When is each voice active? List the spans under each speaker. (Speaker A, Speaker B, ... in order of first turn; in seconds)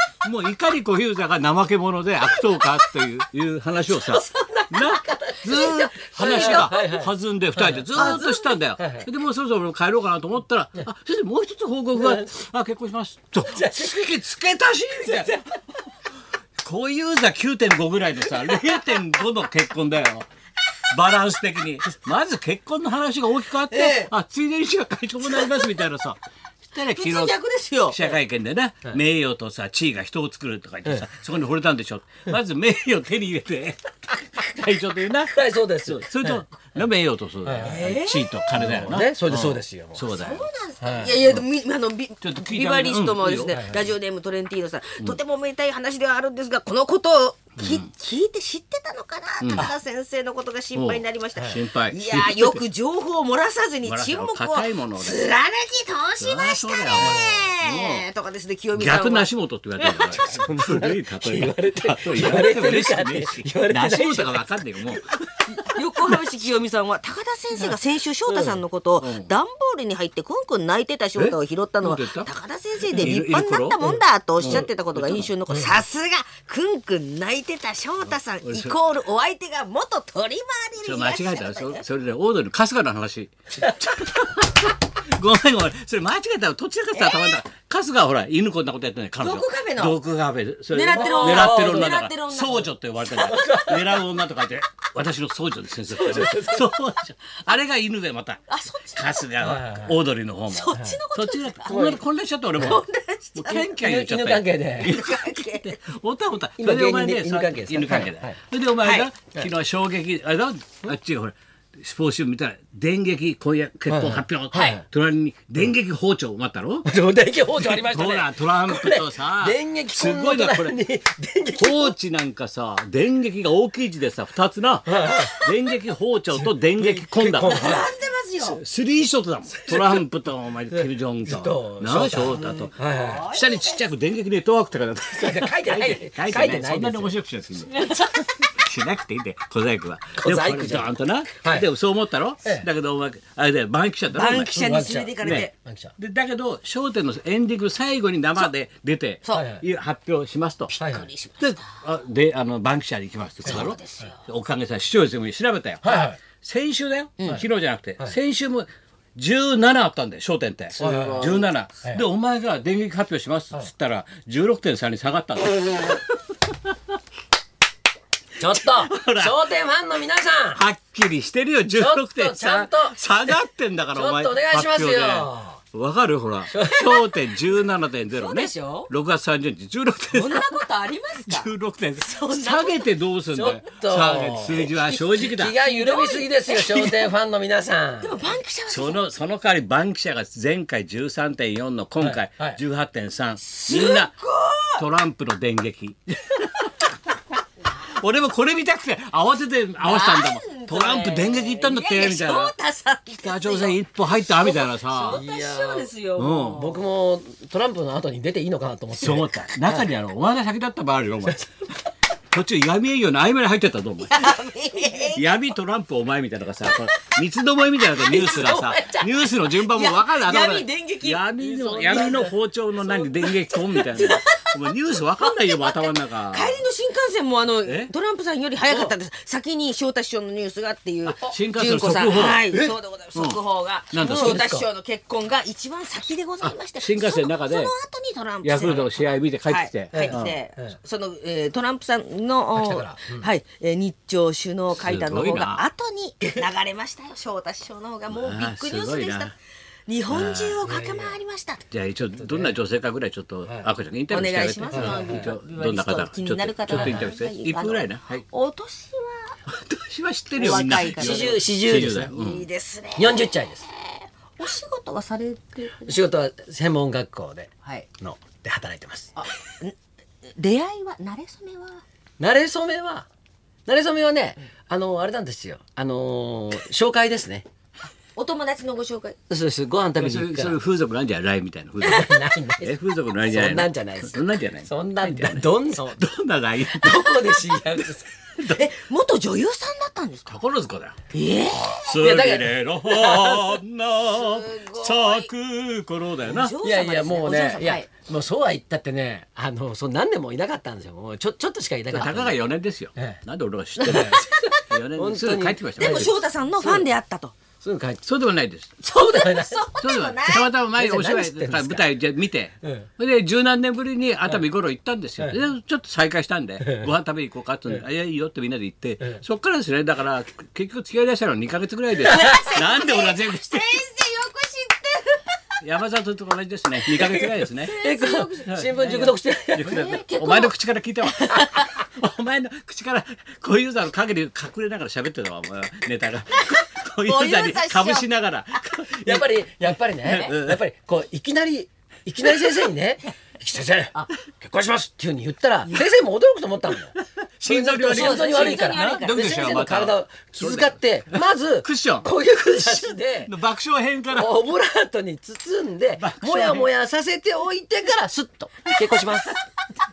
Speaker A: 0.2-15.4, 16.6-20.3, 20.9-40.5, 42.2-43.6, 47.6-47.9, 49.4-49.7, 50.8-52.6, 53.9-55.3, 56.2-58.0, 58.8-66.2, 68.3-69.3, 71.2-72.3, 72.9-73.8, 74.4-75.3, 78.0-78.8, 80.8-102.8, 103.3-116.9, 117.6-120.8, 121.6-127.8, 128.4-144.6, 145.2-150.8, 151.4-165.9, 168.5-169.4, 170.5-180.5, 181.2-185.6, 188.7-194.1, 194.8-197.0, 197.7-202.5, 203.2-205.2, 206.2-206.7, 209.0-211.5, 212.3-226.6, 227.7-227.9, 231.2-232.4, 233.9-234.5, 236.4-237.7, 238.4-240.4, 244.8-245.7, 248.1-249.3, 250.1-250.7, 251.7-258.2, 259.5-262.4, 280.0-287.2, 287.8-288.6, 290.3-291.0, 291.8-296.6, 301.9-306.1, 308.0-308.8, 309.8-323.8, 325.6-327.7, 328.5-339.4, 340.0-340.6, 347.2-354.4, 356.0-356.7
Speaker B: 2.4-2.6, 3.9-6.8, 8.0-8.5, 23.7-24.1, 25.3-25.7, 26.9-28.2, 37.6-38.3, 40.1-59.3, 59.8-60.1, 65.7-81.8, 86.9-87.3, 89.2-90.0, 90.7-92.8, 98.5-99.3, 100.5-101.9, 102.6-103.8, 104.8-105.8, 127.4-128.6, 132.8-133.8, 137.8-138.2, 144.1-145.5, 150.7-151.6, 153.4-154.2, 160.8-161.5, 178.1-178.9, 180.1-182.9, 185.5-186.9, 188.0-189.0, 193.5-194.8, 199.8-206.8, 214.1-215.2, 218.0-221.2, 223.1-249.3, 249.9-251.6, 254.1-259.4, 260.3-266.0, 269.2-269.8, 270.3-271.8, 278.2-279.2, 288.4-290.4, 291.1-292.0, 294.1-295.3, 296.3-297.9, 303.8-304.6, 305.8-307.4, 308.8-310.5, 322.1-325.4, 327.6-328.9, 329.6-330.5, 331.1-331.7, 336.4-338.1, 347.9-349.6
Speaker C: 4.5-9.1, 11.9-12.3, 13.4-14.2, 14.9-15.5, 35.3-36.4, 37.4-38.0, 38.5-40.0, 40.8-41.2, 43.5-43.8, 57.0-57.4, 59.8-65.0, 72.9-73.2, 73.8-74.7, 75.5-75.8, 83.6-83.9, 90.9-92.0, 93.1-94.1, 95.9-96.7, 99.4-100.0, 100.8-101.0, 101.7-102.0, 103.6-104.9, 106.6-109.5, 113.9-114.8, 116.9-122.0, 124.9-125.4, 126.3-127.9, 129.7-130.0, 130.7-133.3, 135.1-137.2, 140.2-141.7, 144.5-145.9, 149.3-149.6, 150.8-151.1, 153.5-154.1, 155.8-156.2, 160.8-162.0, 168.4-170.6, 171.7-173.3, 173.9-175.6, 176.5-177.1, 183.3-188.3, 192.0-192.6, 205.1-209.9, 221.4-222.4, 232.5-232.7, 234.0-234.7, 238.6-238.9, 239.9-240.8, 242.6-243.3, 250.6-251.2, 252.0-252.6, 253.4-253.7, 254.7-255.3, 256.7-257.1, 260.4-262.1, 263.0-263.7, 265.9-269.1, 272.2-273.1, 273.7-277.5, 279.3-280.6, 281.8-286.0, 286.7-288.1, 292.0-293.6, 296.6-302.4, 302.9-303.2, 303.8-304.3, 304.9-306.9, 307.6-308.0, 308.9-309.6, 310.7-311.9, 312.6-312.9, 316.6-316.9, 326.9-330.0, 339.0-353.3, 354.1-359.4